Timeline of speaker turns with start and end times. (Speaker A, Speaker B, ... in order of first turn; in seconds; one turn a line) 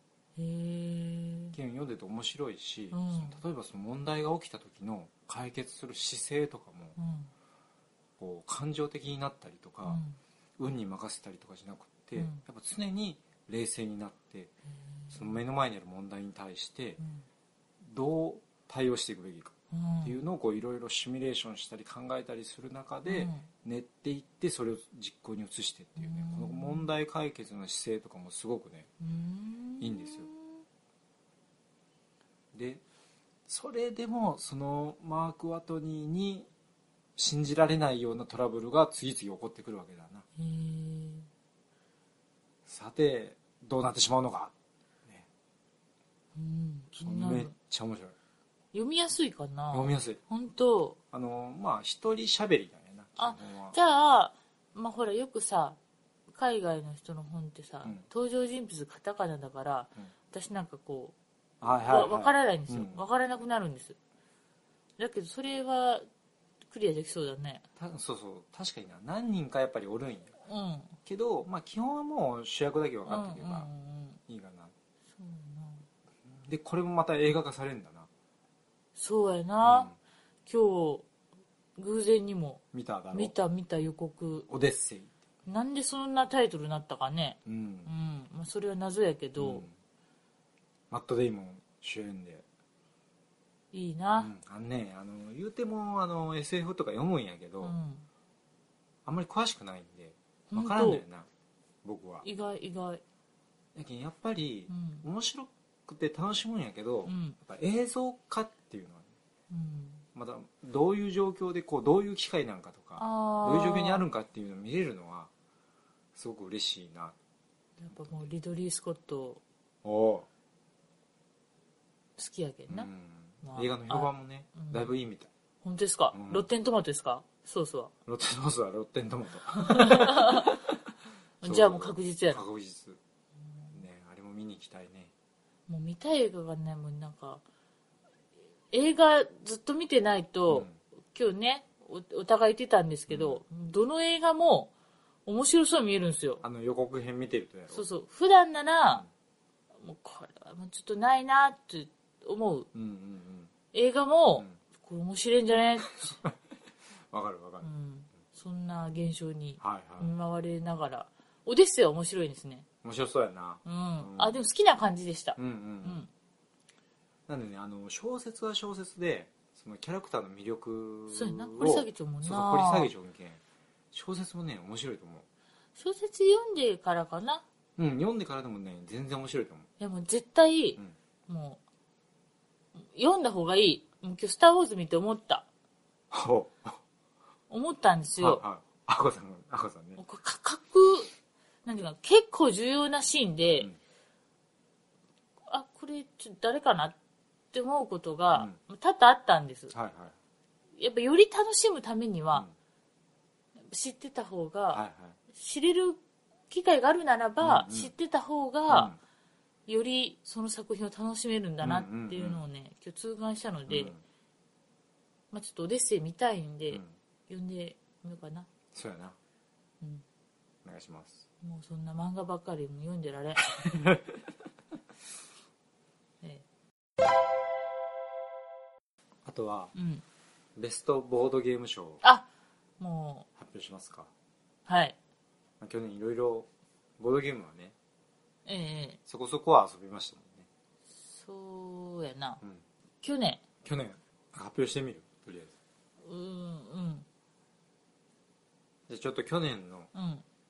Speaker A: 0.3-1.6
Speaker B: 1.5-7.0
Speaker A: 2.9-3.4
Speaker A: 7.0-7.3
Speaker B: 8.2-10.0
Speaker A: 9.8-10.2
Speaker B: 10.6-14.5
Speaker A: 12.2-12.4
Speaker A: 15.0-15.3
Speaker B: 15.1-17.0
Speaker A: 17.0-17.2
Speaker B: 17.8-28.9
Speaker A: 19.7-20.2
Speaker A: 23.0-23.5
Speaker A: 26.0-26.9
Speaker A: 29.0-30.6
Speaker B: 29.8-30.3
Speaker B: 32.5-32.8
Speaker B: 33.5-36.5
Speaker B: 37.2-40.2
Speaker A: 40.4-41.3
Speaker B: 42.6-44.5
Speaker A: 46.3-47.5
Speaker B: 47.0-48.1
Speaker A: 48.7-51.0
Speaker B: 49.7-50.2
Speaker B: 51.1-53.8
Speaker A: 53.2-55.8
Speaker A: 56.3-61.1
Speaker B: 61.6-63.0
Speaker A: 61.7-64.0
Speaker A: 65.0-66.0
Speaker A: 66.7-67.6
Speaker B: 67.8-70.3
Speaker A: 70.5-71.0
Speaker B: 71.0-73.7
Speaker A: 73.0-74.2
Speaker B: 74.3-74.7
Speaker A: 75.2-75.8
Speaker B: 76.2-78.1
Speaker A: 79.0-79.9
Speaker B: 79.6-80.0
Speaker A: 80.5-81.1
Speaker A: 81.8-84.5
Speaker B: 82.7-83.3
Speaker B: 84.5-85.1
Speaker A: 85.5-89.7
Speaker B: 87.5-87.9
Speaker B: 89.4-89.7
Speaker B: 90.9-92.4
Speaker A: 93.7-94.3
Speaker B: 94.2-97.8
Speaker A: 97.6-98.1
Speaker B: 99.0-101.3
Speaker A: 100.5-101.0
Speaker B: 101.8-102.2
Speaker A: 102.2-103.0
Speaker B: 103.7-109.1
Speaker A: 104.7-105.0
Speaker A: 107.0-107.4
Speaker A: 109.5-110.0
Speaker B: 110.1-115.3
Speaker A: 113.0-114.0
Speaker B: 116.1-117.1
Speaker A: 117.8-119.4
Speaker B: 117.9-118.3
Speaker B: 119.8-120.3
Speaker A: 122.2-122.9
Speaker B: 122.7-125.3
Speaker A: 123.4-124.9
Speaker A: 125.6-127.9
Speaker B: 126.1-126.5
Speaker B: 128.1-130.7
Speaker A: 129.5-130.5
Speaker A: 131.4-132.4
Speaker B: 131.4-133.0
Speaker B: 133.7-135.1
Speaker A: 135.7-137.4
Speaker A: 138.7-144.7
Speaker B: 140.5-140.8
Speaker B: 143.1-143.4
Speaker A: 145.2-146.4
Speaker B: 146.4-147.8
Speaker A: 147.7-149.0
Speaker A: 149.8-152.7
Speaker B: 152.7-153.5
Speaker A: 153.7-156.2
Speaker B: 157.1-157.7
Speaker A: 157.6-162.7
Speaker B: 159.6-160.1
Speaker B: 162.8-164.4
Speaker A: 163.6-166.1
Speaker B: 165.3-166.0
Speaker B: 167.3-173.4
Speaker A: 171.1-172.9
Speaker B: 173.9-175.2
Speaker A: 175.8-177.4
Speaker B: 177.8-179.7
Speaker A: 179.8-181.6
Speaker A: 182.8-185.5
Speaker B: 186.1-186.8
Speaker A: 187.5-188.4
Speaker B: 188.2-190.0
Speaker A: 190.0-191.1
Speaker A: 191.6-193.7
Speaker A: 195.5-197.0
Speaker A: 197.5-199.7
Speaker B: 199.7-200.1
Speaker A: 200.8-202.5
Speaker A: 203.7-208.9
Speaker B: 204.7-205.2
Speaker B: 207.4-207.9
Speaker B: 208.7-209.0
Speaker A: 209.7-213.9
Speaker B: 211.6-212.4
Speaker B: 213.7-214.0
Speaker A: 215.3-218.5
Speaker B: 218.7-219.2
Speaker B: 220.6-221.2
Speaker A: 221.4-223.7
Speaker B: 223.6-224.0
Speaker B: 229.2-229.7
Speaker A: 229.7-230.0
Speaker B: 230.6-232.0
Speaker A: 232.8-233.3
Speaker B: 233.4-234.1
Speaker A: 234.7-235.0
Speaker B: 235.6-236.5
Speaker B: 237.0-237.7
Speaker A: 238.4-239.0
Speaker B: 239.1-240.5
Speaker A: 241.0-242.4
Speaker A: 243.0-243.4
Speaker B: 243.6-245.5
Speaker A: 246.0-247.1
Speaker B: 248.9-249.9
Speaker A: 249.9-250.2